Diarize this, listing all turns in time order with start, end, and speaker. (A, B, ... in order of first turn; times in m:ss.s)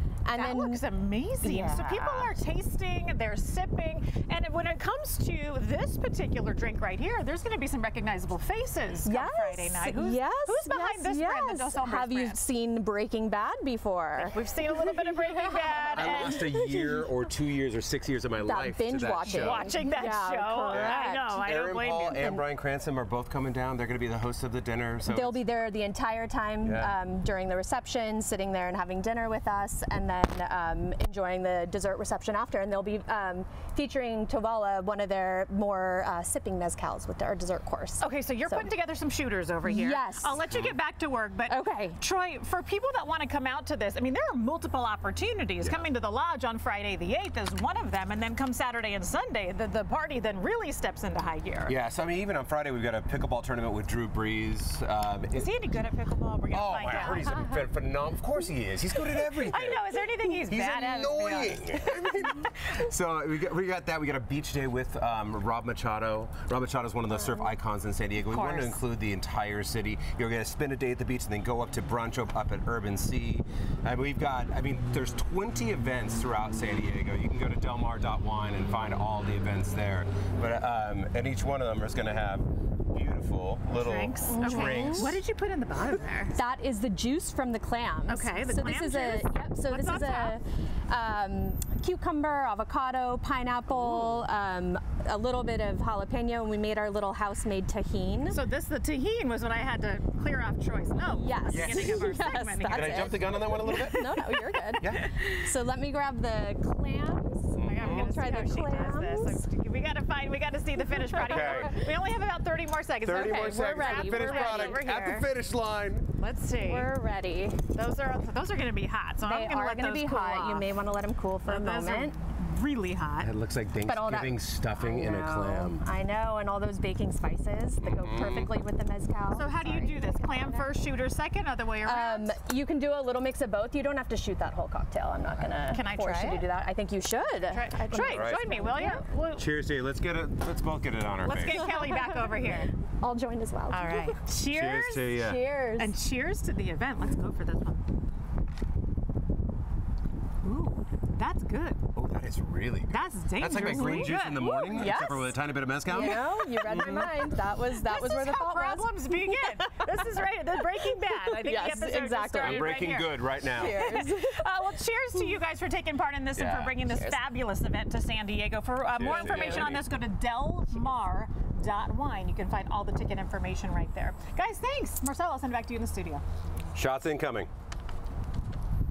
0:00.2-0:00.8 A
0:00.3-0:12.4 B
0:01.4-0:02.3 A
0:09.0-0:17.1 A
0:14.2-0:16.4 B
0:15.9-0:19.7 C
0:18.4-0:21.6 A
0:19.3-0:22.4 B
0:20.7-0:25.4 C
0:25.0-0:38.7 A
0:26.6-0:26.9 C
0:38.0-0:51.8 B
0:39.6-0:40.4 A
0:40.5-0:40.7 C
0:41.5-0:42.0 A
0:45.6-0:45.9 C
0:51.7-0:55.5 C
0:55.3-0:57.6 B
0:56.5-1:25.2 C
0:59.1-1:02.4 B
1:08.2-1:08.8 B
1:23.7-1:26.4 B
1:24.3-1:25.2 A
1:26.3-1:38.4 A
1:28.1-1:30.4 B
1:33.8-1:34.2 B
1:38.3-1:43.4 B
1:41.0-1:49.4 A
1:41.5-1:42.2 C
1:42.7-1:44.2 C
1:44.8-1:45.1 C
1:47.5-1:48.1 C
1:47.6-1:55.3 B
1:50.8-1:51.9 A
1:51.1-1:51.7 C
1:53.0-1:56.1 C
1:53.1-1:54.9 A
1:56.2-1:56.9 B
1:56.6-1:57.6 A
1:57.7-2:00.7 B
1:59.2-2:02.1 A
2:01.4-2:03.3 B
2:03.2-2:05.8 C
2:03.8-2:10.7 A
2:07.8-2:08.5 C
2:09.3-2:12.3 B
2:11.8-2:19.0 A
2:15.7-2:16.4 B
2:17.5-2:19.4 B
2:18.0-2:18.4 C
2:19.4-2:21.7 C
2:21.2-2:22.7 B
2:21.7-2:22.3 A
2:23.0-2:24.2 A
2:23.7-2:25.1 B
2:24.4-2:25.4 C
2:25.1-2:25.9 A
2:25.7-2:27.8 B
2:30.4-2:31.8 B
2:31.9-2:37.3 C
2:32.9-2:35.0 B
2:33.6-2:40.2 A
2:37.8-2:56.2 B
2:40.9-2:44.4 A
2:42.4-2:43.9 C
2:46.3-2:46.8 C
2:46.8-2:47.2 A
2:48.9-2:49.8 C
2:49.2-2:49.7 A
2:56.7-2:57.5 C